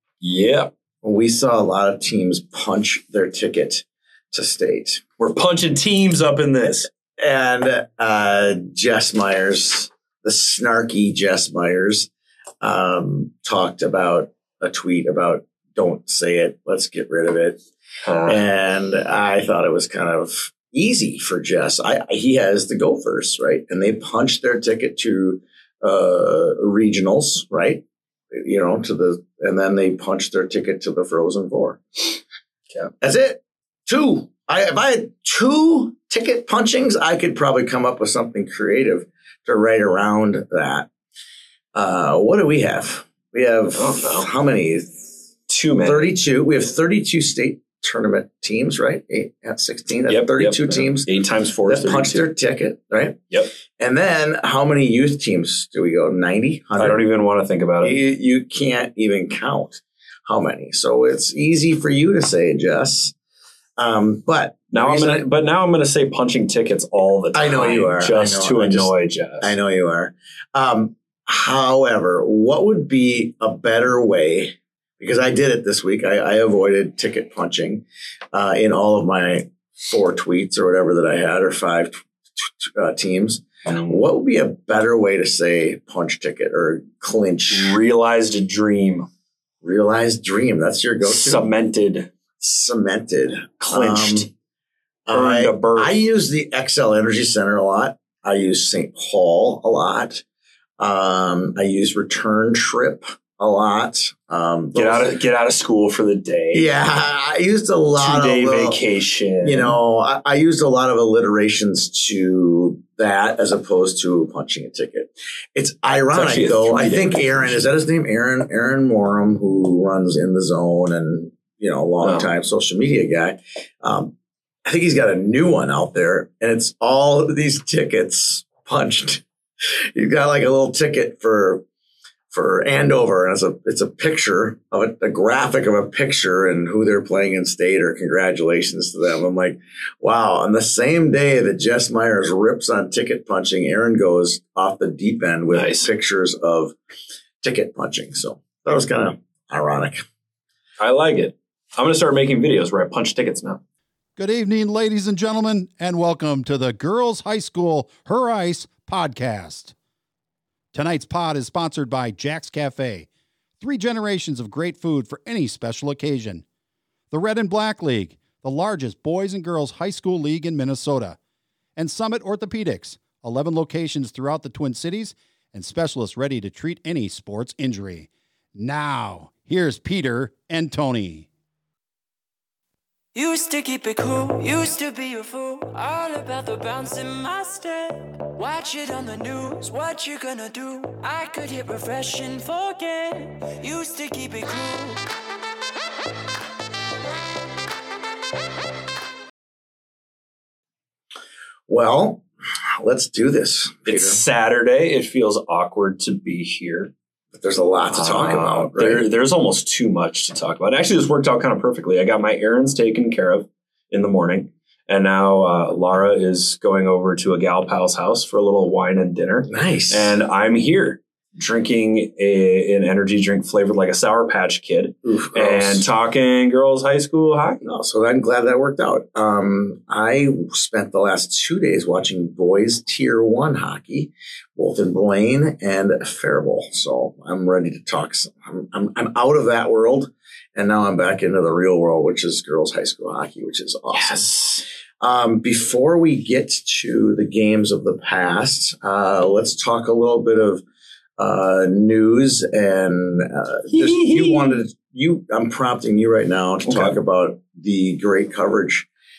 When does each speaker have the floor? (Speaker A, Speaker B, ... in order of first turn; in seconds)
Speaker A: 0.2-0.7, 5.2-6.9, 18.0-18.4, 43.7-44.3, 45.5-46.1, 50.1-52.2, 56.8-58.0, 64.7-69.5, 83.7-84.0, 87.5-89.1, 91.0-92.1, 93.6-94.3, 95.1-96.0, 104.7-106.7, 108.0-109.8, 116.1-117.6, 122.0-122.3, 145.5-145.9, 150.8-153.6, 203.8-206.9, 207.9-227.6, 243.9-244.6, 253.7-254.6, 256.6-256.9
Speaker B: 1.0-5.0, 7.2-12.1, 12.6-17.6, 18.2-32.1, 33.0-40.9, 41.7-45.1, 45.8-51.1, 51.7-53.2, 53.8-57.0, 57.8-63.1, 63.8-65.2, 67.3-77.8, 78.3-87.8, 89.6-91.5, 92.4-94.3, 95.1-100.2, 100.8-105.1, 106.5-108.8, 109.4-124.1, 124.7-129.2, 129.9-131.6, 132.3-146.8, 147.4-150.0, 201.7-202.2, 202.8-204.2, 207.3-209.1, 219.5-220.2, 225.1-225.8, 227.6-244.3, 245.0-250.6, 251.2-258.9
Speaker C: 154.2-159.8, 160.7-163.1, 163.6-166.4, 167.1-171.2, 171.8-181.3
Speaker D: 183.1-195.0